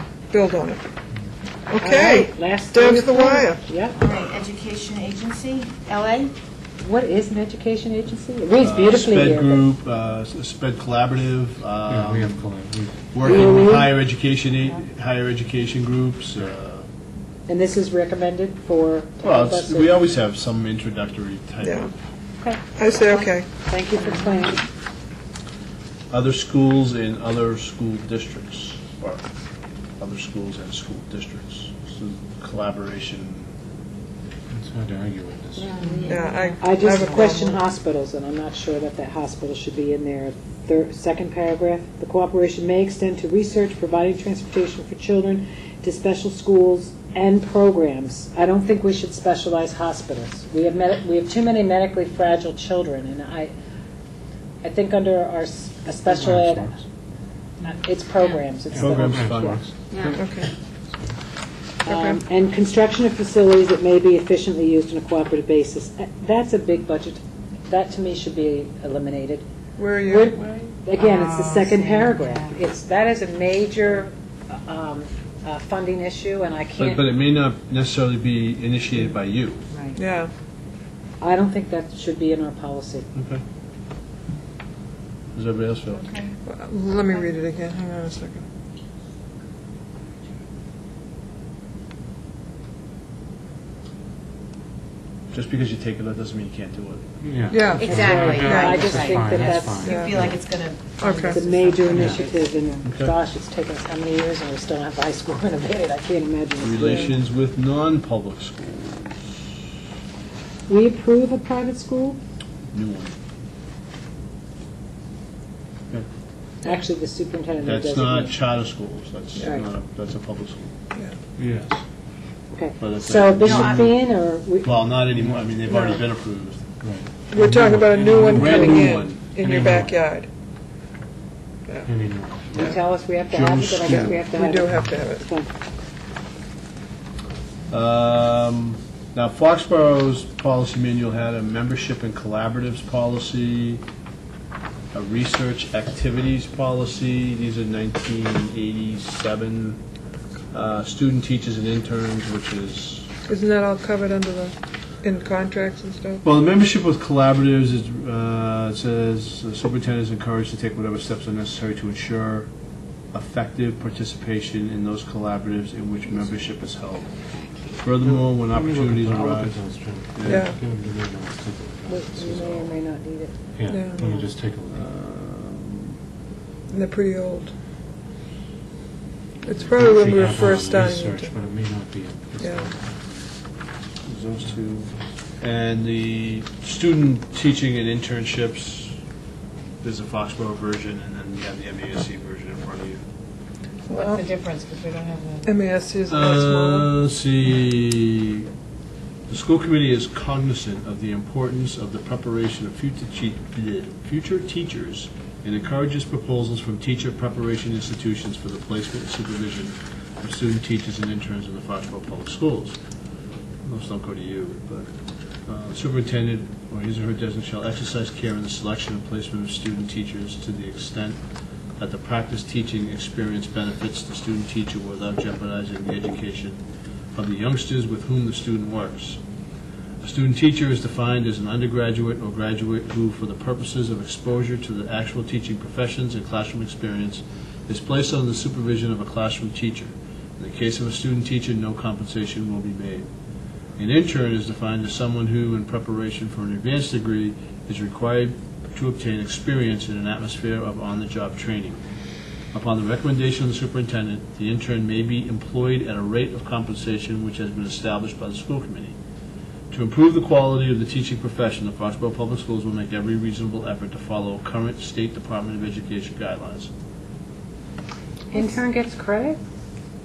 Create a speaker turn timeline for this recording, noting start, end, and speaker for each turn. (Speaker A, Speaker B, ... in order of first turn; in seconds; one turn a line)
Speaker A: 0.3-0.8
Speaker A: 1.7-3.6
Speaker B: 1.8-4.0
Speaker C: 4.0-6.3
Speaker B: 6.8-9.7
Speaker D: 8.6-12.4
Speaker E: 11.8-13.6
Speaker D: 13.1-16.9
Speaker B: 13.2-13.9
Speaker B: 17.5-20.0
Speaker D: 19.2-21.9
Speaker A: 21.6-21.9
Speaker B: 22.4-24.6
Speaker A: 22.8-23.5
Speaker D: 26.1-29.2
Speaker D: 30.0-33.5
Speaker E: 34.5-35.9
Speaker B: 35.6-53.5
Speaker C: 35.7-37.6
Speaker A: 36.1-37.4
Speaker B: 54.6-56.8
Speaker E: 56.1-56.7
Speaker B: 57.6-59.6
Speaker E: 58.7-60.2
Speaker D: 58.8-59.6
Speaker C: 59.9-60.2
Speaker A: 60.1-60.5
Speaker B: 61.8-69.4
Speaker A: 61.9-62.2
Speaker A: 69.8-70.7
Speaker B: 70.0-77.1
Speaker C: 71.0-72.6
Speaker D: 76.8-79.7
Speaker C: 79.7-80.0
Speaker A: 80.0-80.3
Speaker B: 81.2-83.1
Speaker D: 83.1-83.4
Speaker D: 85.3-86.2
Speaker C: 85.9-86.4
Speaker A: 86.5-88.4
Speaker D: 95.3-97.0
Speaker E: 97.2-100.4
Speaker A: 97.5-98.8
Speaker C: 97.8-102.8
Speaker B: 97.8-100.0
Speaker A: 99.8-100.2
Speaker A: 101.0-101.4
Speaker B: 101.3-107.2
Speaker E: 101.9-102.2
Speaker D: 102.8-103.1
Speaker D: 106.6-109.4
Speaker B: 110.7-112.2
Speaker D: 112.7-113.2
Speaker B: 116.6-118.4
Speaker D: 117.6-120.7
Speaker B: 119.4-119.6
Speaker E: 121.4-121.8
Speaker B: 122.5-124.7
Speaker D: 122.8-124.1
Speaker C: 123.4-123.8
Speaker D: 124.6-126.6
Speaker E: 125.1-125.4
Speaker A: 125.7-126.0
Speaker E: 126.8-129.9
Speaker A: 127.3-130.3
Speaker D: 128.1-129.2
Speaker E: 131.8-132.8
Speaker B: 132.5-135.5
Speaker D: 133.3-134.2
Speaker A: 133.8-135.2
Speaker D: 137.7-143.8
Speaker D: 144.9-149.8
Speaker D: 150.5-153.1
Speaker A: 153.3-156.2
Speaker D: 156.2-162.5
Speaker D: 163.1-167.1
Speaker D: 167.8-169.6
Speaker E: 168.0-172.7
Speaker D: 170.1-170.5
Speaker A: 170.2-170.6
Speaker B: 171.9-173.3
Speaker E: 173.6-174.9
Speaker A: 173.7-174.2
Speaker D: 174.7-176.0
Speaker A: 176.7-177.5
Speaker A: 179.4-181.3
Speaker E: 179.7-182.9
Speaker A: 182.4-182.7
Speaker D: 184.1-188.9
Speaker D: 189.8-193.0
Speaker A: 193.9-194.2
Speaker C: 193.9-195.5
Speaker A: 195.4-196.9
Speaker D: 196.1-198.5
Speaker D: 199.3-212.8
Speaker D: 213.7-214.9
Speaker D: 215.5-221.2
Speaker D: 221.8-226.6
Speaker D: 227.2-229.2
Speaker D: 230.0-243.1
Speaker D: 243.8-251.8
Speaker D: 252.5-258.9
Speaker D: 259.7-266.7
Speaker B: 268.3-269.4